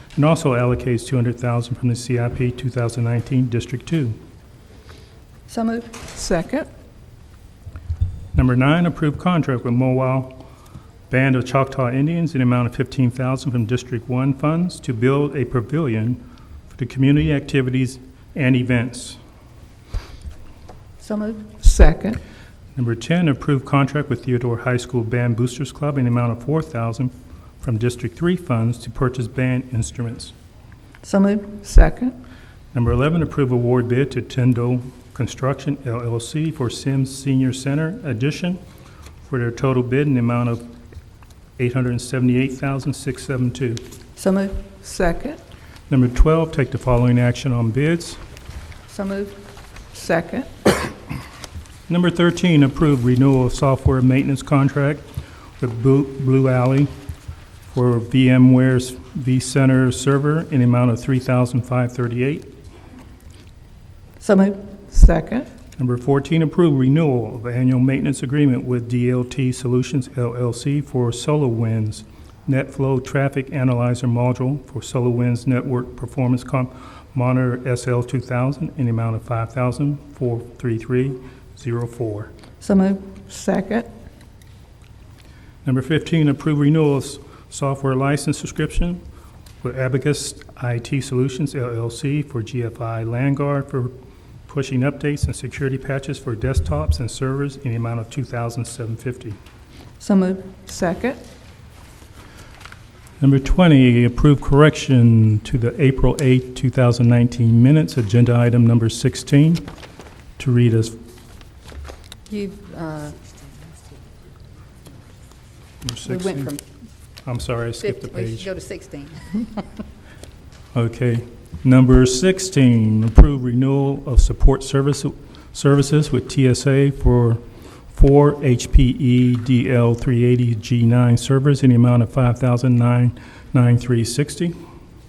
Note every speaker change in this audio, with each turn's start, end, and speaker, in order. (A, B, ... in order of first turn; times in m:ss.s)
0:00.2-0:04.2 A
0:05.5-0:06.0 B
0:06.1-0:06.7 C
0:08.3-0:10.4 A
0:11.1-0:19.2 A
0:21.0-0:21.5 B
0:21.6-0:22.2 C
0:22.7-0:30.3 A
0:31.0-0:31.6 B
0:31.6-0:32.2 C
0:32.7-0:38.6 A
0:39.2-0:40.7 A
0:41.6-0:43.8 A
0:44.2-0:44.7 B
0:44.8-0:45.4 C
0:45.9-0:48.2 A
0:48.9-0:49.4 B
0:49.9-0:50.7 C
0:51.9-0:55.0 A
0:55.6-0:56.9 A
0:57.7-1:02.5 A
1:04.2-1:04.6 B
1:04.9-1:05.5 C
1:05.8-1:22.3 A
1:22.6-1:23.1 B
1:23.3-1:23.9 C
1:25.6-1:29.0 A
1:29.6-1:33.9 A
1:34.5-1:39.4 A
1:40.0-1:40.5 B
1:40.6-1:41.2 C
1:43.2-1:49.7 A
1:50.4-1:51.0 A
1:52.3-1:53.2 B
1:55.8-1:56.6 A
1:56.0-1:56.6 B
1:57.2-1:58.5 A
1:57.8-1:59.6 B
2:00.7-2:07.4 A
2:07.9-2:14.6 A